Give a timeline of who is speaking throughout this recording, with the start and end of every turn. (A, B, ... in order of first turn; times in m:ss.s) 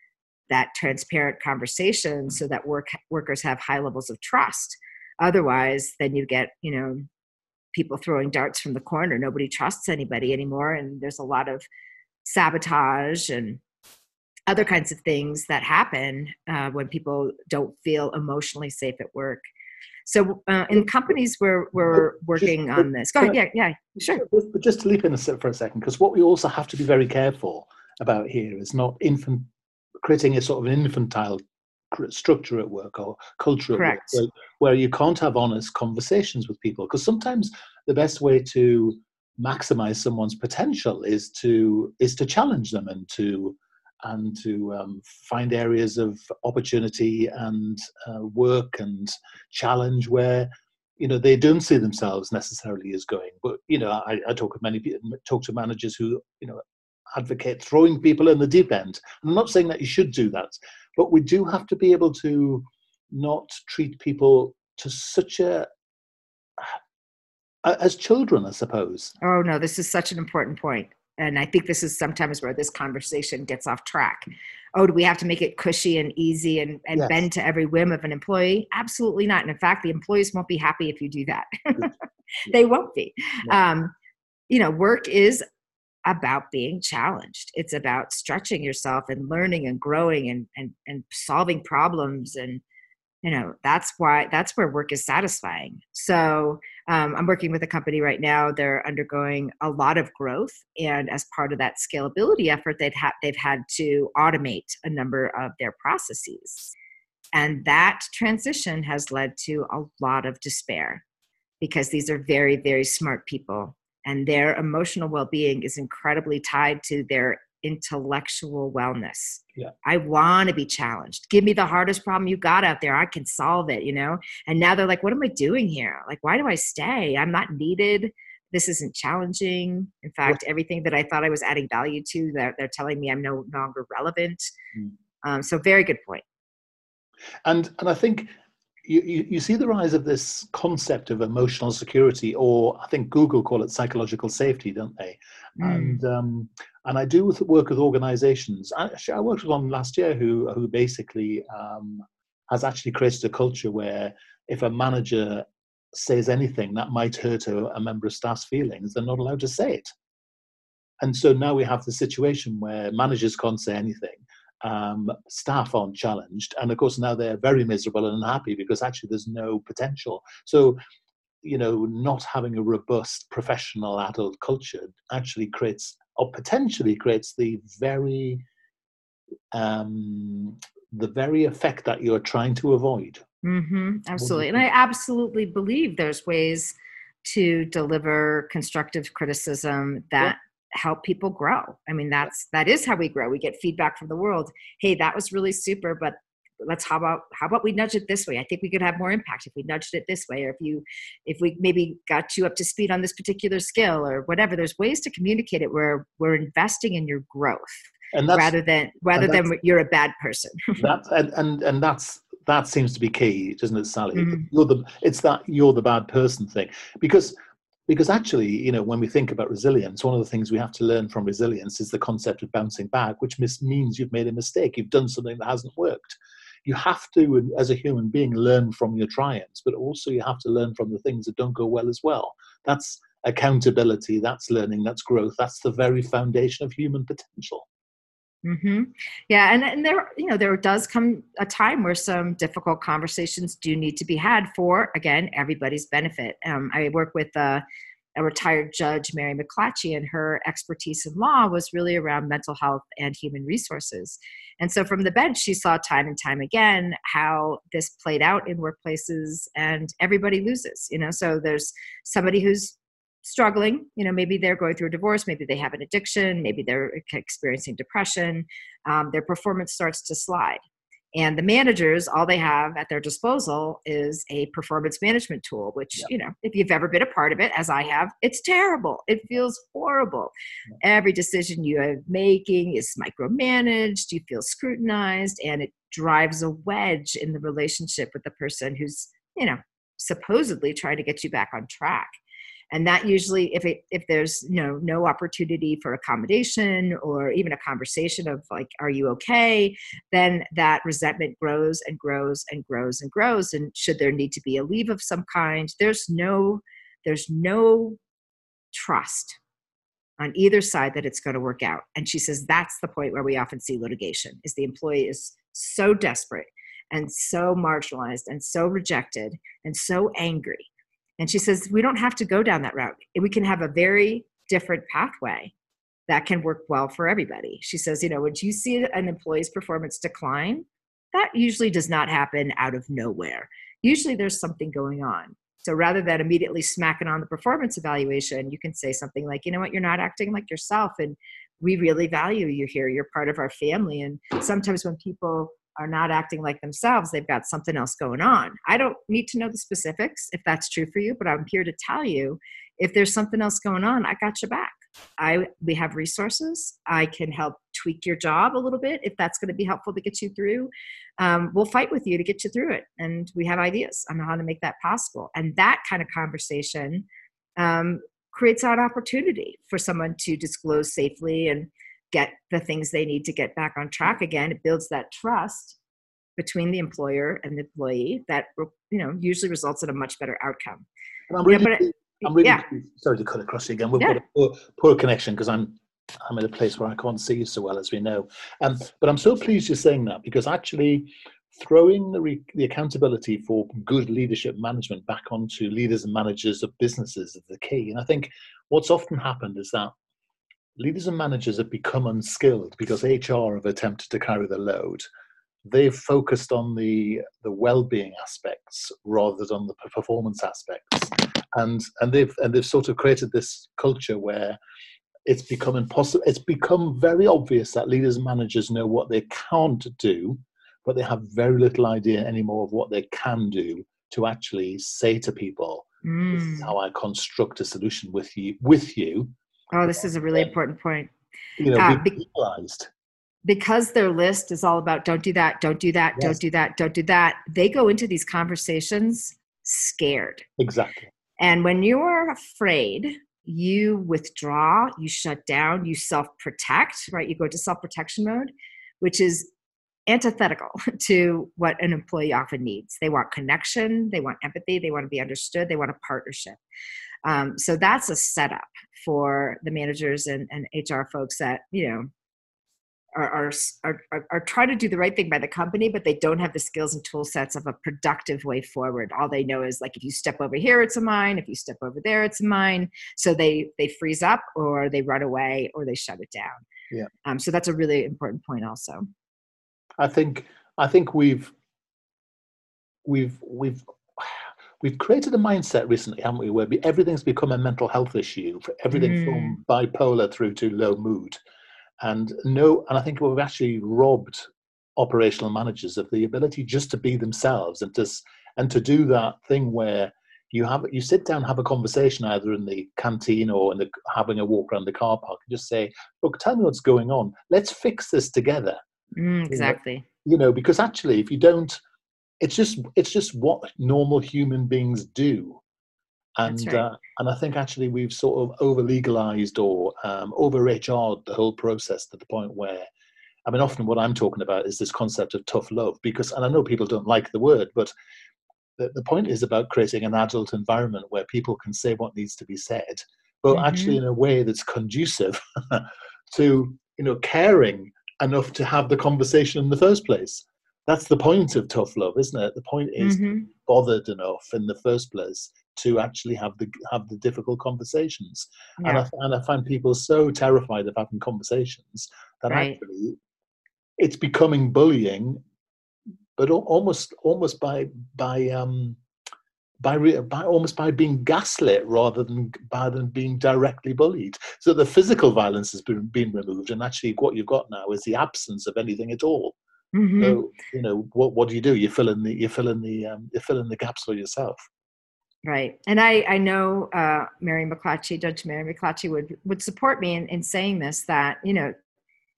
0:00.5-0:07.0 A
0:07.7-0:11.6 A
0:12.2-0:13.6 A
0:14.5-0:19.4 A
0:20.0-0:24.2 A
0:21.9-0:23.4 B
0:24.0-0:31.4 B
0:31.9-1:05.7 B
0:33.7-0:34.2 A
1:07.6-1:09.1 B
1:09.2-1:23.9 A
1:16.9-1:17.2 B
1:24.5-1:25.4 A
1:26.0-1:32.6 A
1:33.2-1:46.7 A
1:47.3-1:51.0 A
1:51.6-2:14.5 A
2:15.2-2:16.2 A
2:17.4-2:18.3 B
2:18.8-2:39.9 B
2:25.6-2:26.0 A
2:41.0-2:50.8 B
2:51.4-2:58.4 B
2:59.5-3:03.2 B
3:03.4-3:30.8 A
3:04.2-3:04.6 B
3:28.1-3:28.5 B
3:29.1-3:29.4 B
3:30.8-3:37.3 B
3:34.1-3:34.5 A
3:37.9-3:57.6 B
3:58.4-4:07.6 A
4:08.2-4:30.6 A
4:31.1-4:52.1 A
4:52.7-5:08.0 A
5:08.7-5:09.4 A
5:10.2-5:20.7 A
5:21.2-5:25.5 A
5:26.1-6:07.0 A
6:07.6-6:15.8 A
6:16.4-6:20.8 A
6:21.3-6:39.9 B
6:21.4-6:22.6 A
6:40.8-6:45.0 B
6:45.6-6:54.6 B
6:55.3-7:09.3 B
7:06.0-7:06.7 A
7:09.7-7:11.1 A
7:10.0-7:10.5 B
7:11.6-7:12.9 B
7:11.7-7:12.1 A
7:13.4-7:20.4 A
7:20.6-7:21.1 B
7:21.4-7:29.5 A
7:30.1-7:36.6 A
7:37.2-7:42.1 A
7:43.1-7:56.6 A
7:57.2-7:59.1 A
8:00.0-8:01.5 B
8:03.0-8:11.4 B
8:08.9-8:09.6 A
8:12.0-8:28.8 B
8:29.2-8:30.0 A
8:29.5-8:31.8 B
8:32.4-8:35.6 B
8:36.4-8:42.9 B
8:36.4-8:36.8 A
8:43.4-8:47.9 B
8:48.8-9:13.2 B
8:53.5-8:54.0 A
9:03.0-9:03.5 A
9:08.8-9:09.0 A
9:12.5-9:12.8 A
9:14.0-9:15.4 B
9:16.4-9:19.0 B
9:19.8-9:29.5 B
9:29.9-9:30.4 A
9:30.2-9:34.6 B
9:35.4-9:41.7 A